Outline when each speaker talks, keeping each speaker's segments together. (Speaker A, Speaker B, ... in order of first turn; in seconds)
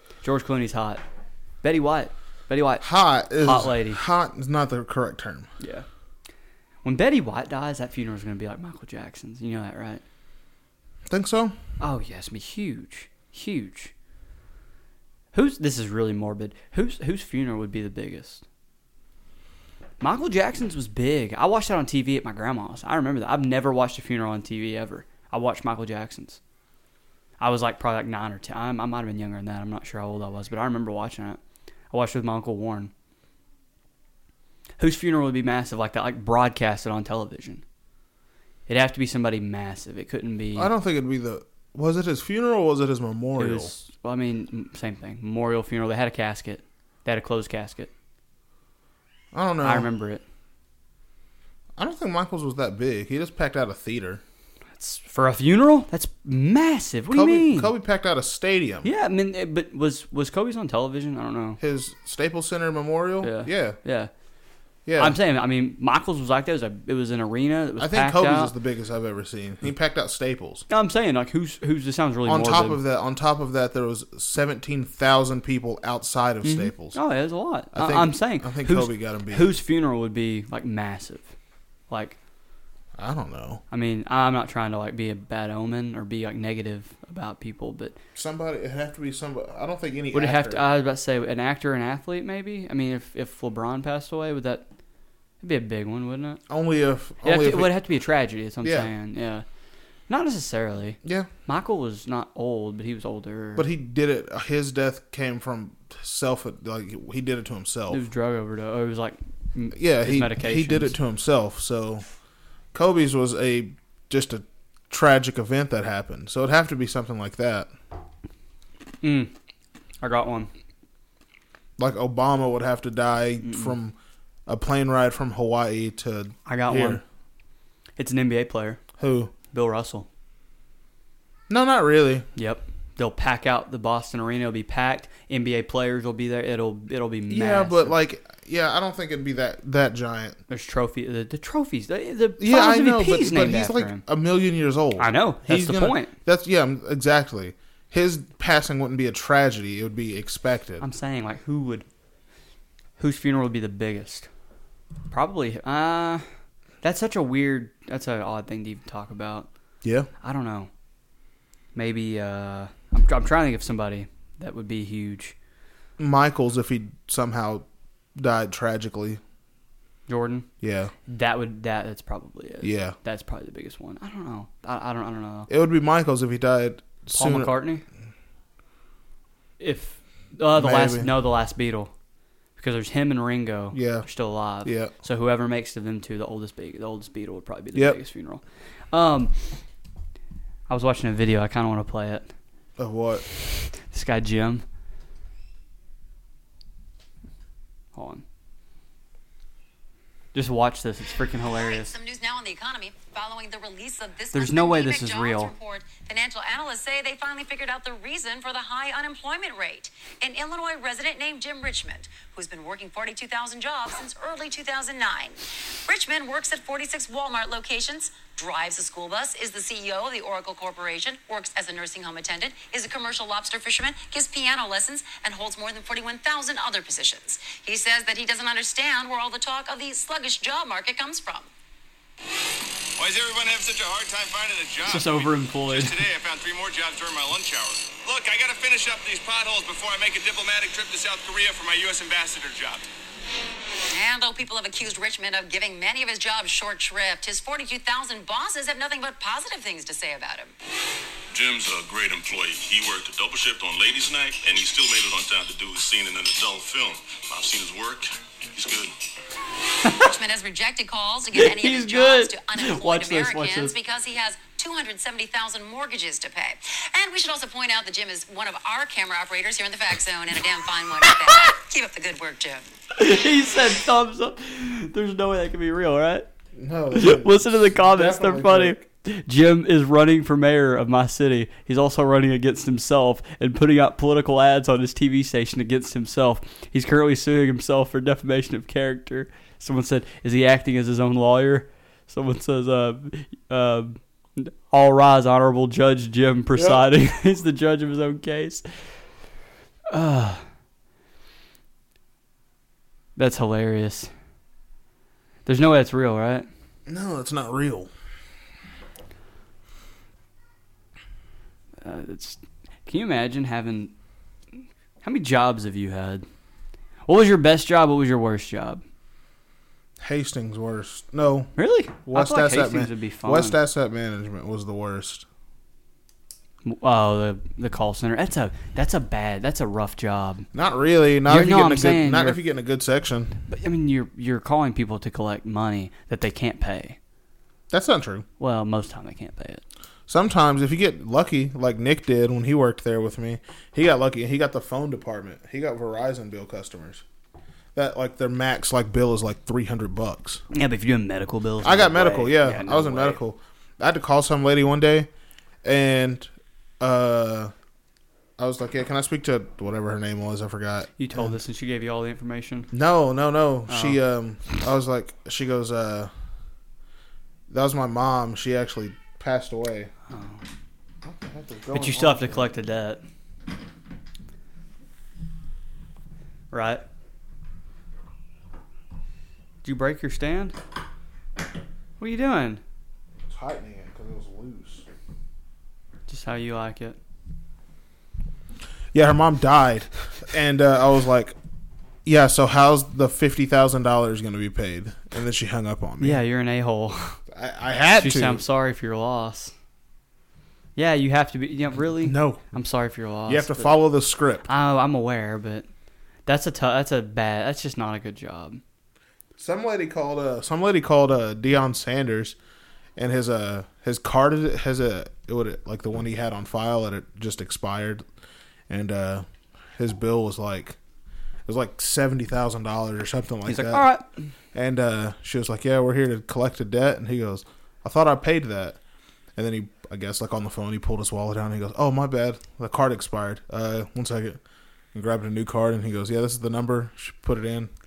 Speaker A: 0.2-1.0, 1.6-4.0, 5.6-5.8, 6.8-10.0, 11.8-13.9, 15.3-18.4, 20.0-26.4, 27.4-31.4, 31.9-32.9, 34.8-37.6, 38.7-40.7, 43.4-47.9, 49.6-50.2, 54.8-57.7, 58.8-61.6, 63.2-64.1, 65.0-68.5, 70.7-72.8, 76.4-81.3, 81.9-82.2, 83.7-88.0, 90.1-94.7, 95.4-96.4, 97.2-99.4, 100.1-103.7, 107.9-111.0, 119.0-119.3, 120.0-120.5, 123.4-123.7, 126.5-127.0, 128.0-128.8, 129.5-130.1, 132.3-137.9, 140.5-144.0, 145.0-146.1, 150.8-151.8, 153.0-154.3, 155.1-156.2, 156.8-159.5, 160.2-160.7, 161.7-165.3, 170.1-170.5, 171.1-175.5, 177.1-177.8, 179.6-181.9, 182.6-189.3, 190.7-192.3, 193.7-194.6, 197.9-198.2, 200.3-201.9, 204.3-205.5, 234.9-236.0, 259.8-260.1, 261.3-263.7, 272.9-276.3, 276.9-298.6, 299.9-300.4, 303.1-304.1, 305.4-306.5, 311.8-313.9, 315.0-316.2, 317.1-318.8, 321.6-323.6, 326.6-330.5, 331.3-332.4, 333.5-337.0, 338.4-339.6, 350.5-353.2, 361.0-362.7, 363.7-364.0, 370.1-370.4, 371.7-373.0, 376.5-376.8, 379.6-380.6, 382.0-382.6, 386.1-387.0, 396.0-397.2, 397.9-399.5, 400.8-403.8, 404.4-405.7, 406.2-408.6, 423.4-424.1
Speaker B: 2.8-5.5, 11.1-11.6, 40.5-43.7, 49.3-49.9, 51.8-54.2, 57.1-58.9, 61.6-63.8, 64.8-65.2, 67.8-70.7, 72.2-77.0, 77.7-79.5, 83.0-83.6, 88.2-90.6, 96.5-97.7, 98.6-98.9, 101.0-101.3, 103.5-108.0, 109.7-112.0, 112.7-117.7, 121.8-127.0, 129.0-129.3, 131.5-132.2, 137.3-140.4, 142.4-150.8, 159.8-160.1, 166.0-169.2, 170.6-170.9, 172.6-172.9, 175.5-177.6, 180.5-181.1, 183.7-184.1, 184.6-184.9, 187.7-188.0, 192.8-193.2, 276.6-278.8, 296.5-296.9, 306.9-307.9, 320.0-321.5, 322.0-325.2, 330.5-333.4, 337.7-338.2, 340.1-347.0, 347.7-350.4, 351.6-355.1, 355.6-357.5, 358.4-361.4, 362.7-366.1, 367.5-369.9, 371.0-372.5, 383.2-384.8, 388.9-391.4, 392.0-396.2, 397.3-398.4, 402.0-402.5, 403.3-404.5, 409.4-412.4, 412.9-418.0, 418.7-419.2, 419.8-420.8, 421.4-423.9, 424.5-428.8, 429.4-434.4, 434.9-437.7
Speaker C: 201.6-231.5, 243.9-250.5, 259.9-272.7
Speaker D: 233.0-242.9
Speaker E: 251.3-258.9